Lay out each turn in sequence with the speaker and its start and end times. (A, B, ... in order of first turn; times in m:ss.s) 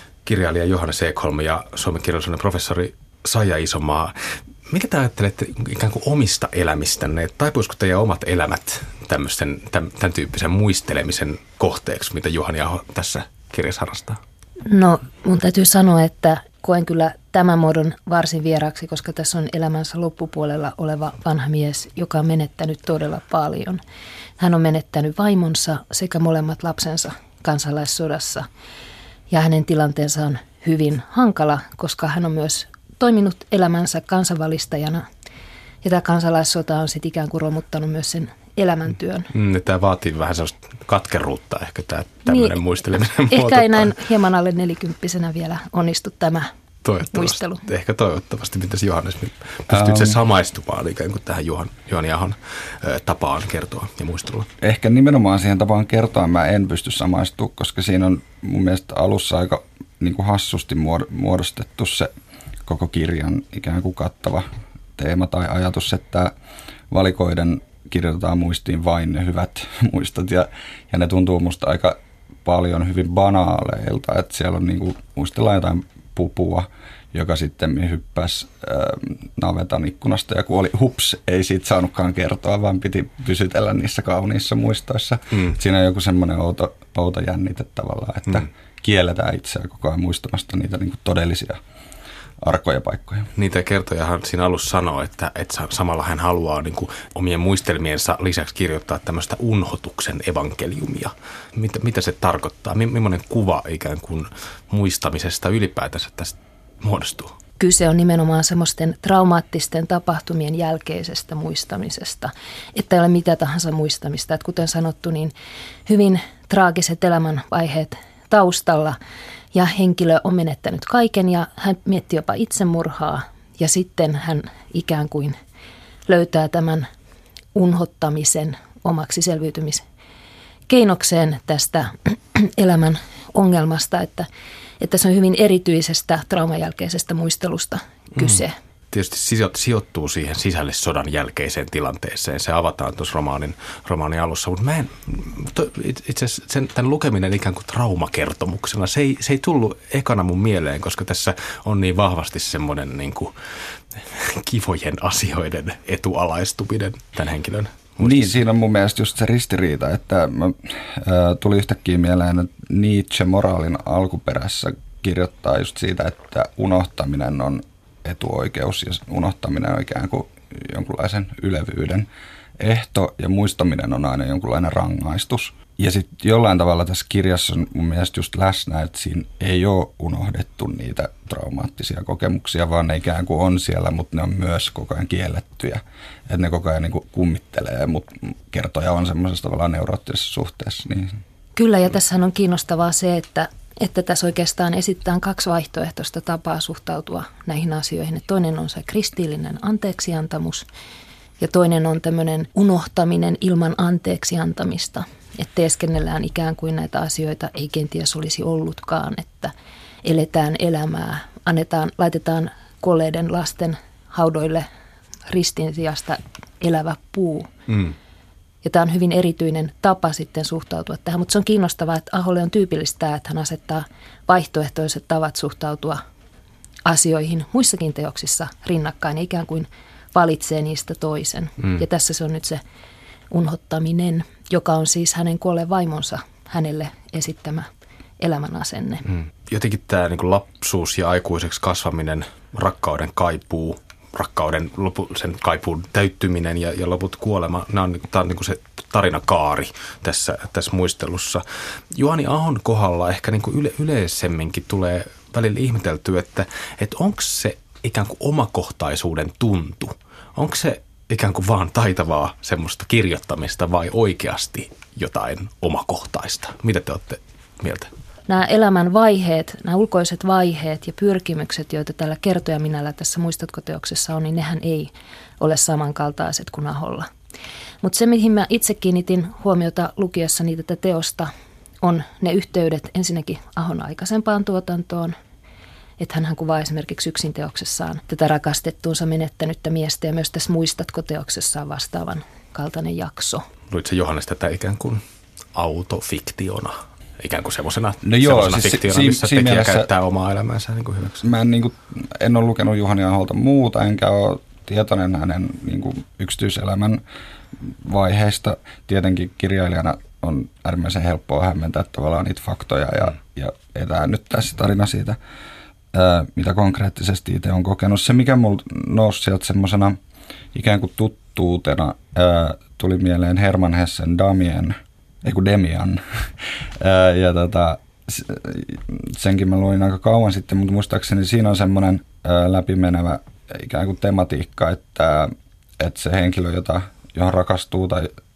0:00.2-0:04.2 A
0:04.7-0:14.2 A
0:14.7-0:23.8 B
0:24.4-0:28.5 B
0:29.3-0:35.0 B
0:35.8-0:39.3 B
0:39.3-0:44.0 A
0:42.3-0:42.6 B
0:43.3-0:46.5 B
0:46.8-0:54.5 A
0:47.1-0:47.6 B
0:49.7-0:50.2 C
0:54.6-1:02.1 C
1:02.6-1:06.3 C
1:06.9-1:31.6 C
1:32.4-1:33.3 C
1:33.3-1:47.3 A
1:47.6-1:55.3 B
1:55.9-1:59.0 B
1:59.5-2:05.3 B
2:06.1-2:06.8 B
2:07.5-2:09.8 B
2:10.7-2:14.3 B
2:14.8-2:18.5 B
2:18.9-2:33.3 A
2:34.0-2:38.4 A
2:38.0-2:52.1 C
2:52.6-3:11.2 C
3:11.6-3:20.6 B
3:21.4-3:29.5 B
3:30.0-3:34.7 B
3:35.3-3:37.5 B
3:37.7-3:37.9 A
3:38.6-3:46.0 B
3:46.8-3:52.6 B
3:53.3-3:57.7 B
3:58.2-3:59.0 B
3:59.1-4:27.9 A
4:28.3-4:37.1 B
4:37.8-4:41.3 B
4:41.8-4:45.1 B
4:46.0-4:53.5 B
4:53.7-4:55.0 A
4:55.5-5:01.3 A
4:58.0-4:59.9 C
5:01.2-5:07.0 C
5:07.6-5:15.2 C
5:15.9-5:20.0 C
5:20.5-5:38.1 C